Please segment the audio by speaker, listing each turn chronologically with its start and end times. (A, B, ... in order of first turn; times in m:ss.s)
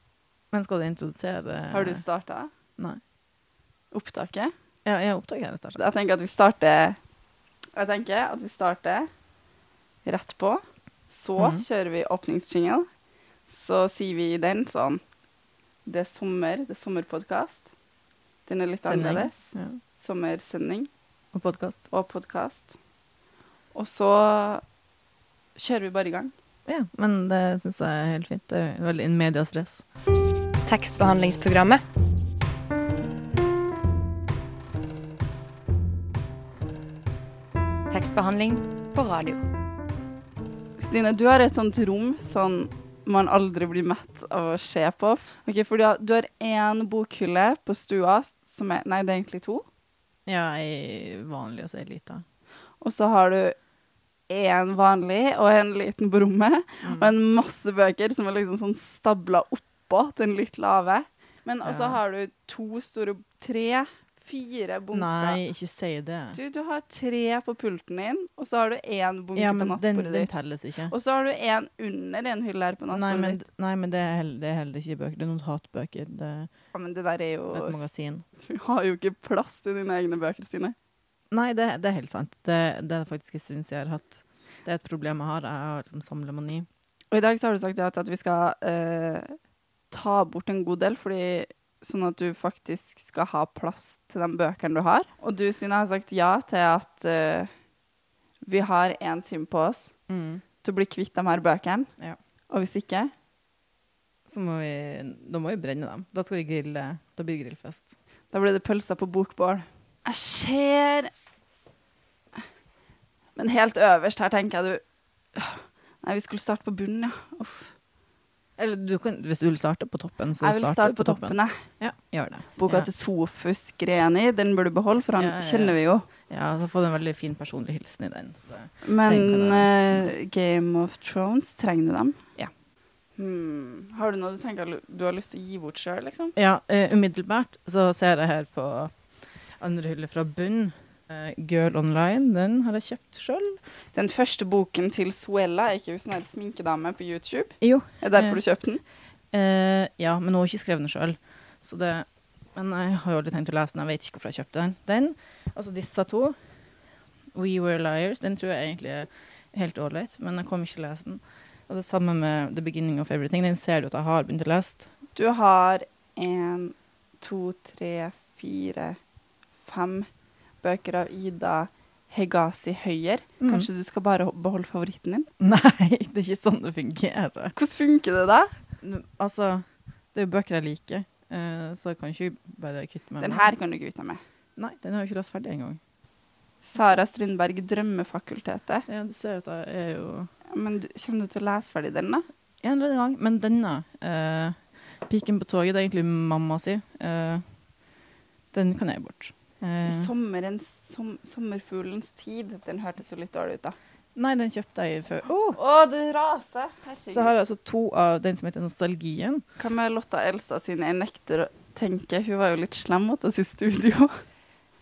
0:00.5-0:02.0 A
0:01.7-0:02.5 B
0:03.9-0:04.5 B
0:04.8-0:05.8 A
0:05.8-0:07.0 B
0:07.8-0:09.1 B
0:10.0-0:12.9 B
0:11.4-0:11.6 A
0:13.5-0:15.0 B
0:15.9-0:17.6 B
0:18.5-0:19.4 B
0:18.8-0:19.8 A
0:20.0-0:20.9 B
0:21.3-0:21.8 A
0:21.9-0:22.7 B
0:23.7-0:24.6 B
0:25.6-0:26.3 B
0:26.7-0:29.8 A
0:30.7-0:31.8 C
0:37.9-0:39.4 C
0:40.8-0:49.6 B
0:50.3-0:52.2 A
0:52.8-0:53.6 B
0:54.3-1:05.4 B
0:56.8-0:57.1 A
1:01.6-1:02.0 A
1:04.9-1:06.4 A
1:06.4-1:10.3 B
1:09.4-1:10.9 A
1:10.9-1:13.4 B
1:12.9-1:16.5 A
1:16.7-1:17.8 B
1:17.5-1:18.2 A
1:18.4-1:20.8 B
1:21.3-1:26.7 A
1:27.1-1:29.3 B
1:29.9-1:37.5 B
1:38.5-1:39.9 B
1:40.1-1:40.4 A
1:40.6-1:41.9 B
1:42.5-1:43.1 B
1:44.3-1:47.9 A
1:48.3-1:51.1 B
1:53.4-1:54.8 B
1:55.3-1:57.7 B
1:58.6-2:02.9 A
2:00.4-2:01.6 B
2:02.6-2:06.0 B
2:05.2-2:10.1 A
2:08.8-2:12.3 B
2:13.2-2:16.3 B
2:16.4-2:18.9 A
2:19.6-2:23.6 A
2:24.0-2:28.8 B
2:27.6-2:28.4 A
2:29.3-2:36.4 A
2:37.3-2:44.9 A
2:45.2-2:49.0 B
2:49.6-2:50.1 B
2:50.6-2:55.3 B
2:53.4-2:53.7 A
2:55.4-2:57.5 A
2:57.6-2:58.5 B
2:58.8-3:03.5 A
3:03.2-3:04.2 B
3:04.6-3:05.8 A
3:06.6-3:08.9 B
3:08.9-3:10.3 A
3:10.5-3:12.2 B
3:12.6-3:17.4 A
3:18.5-3:20.1 A
3:19.9-3:23.8 B
3:24.2-3:25.6 A
3:25.5-3:27.3 B
3:27.1-3:29.5 A
3:29.6-3:34.2 B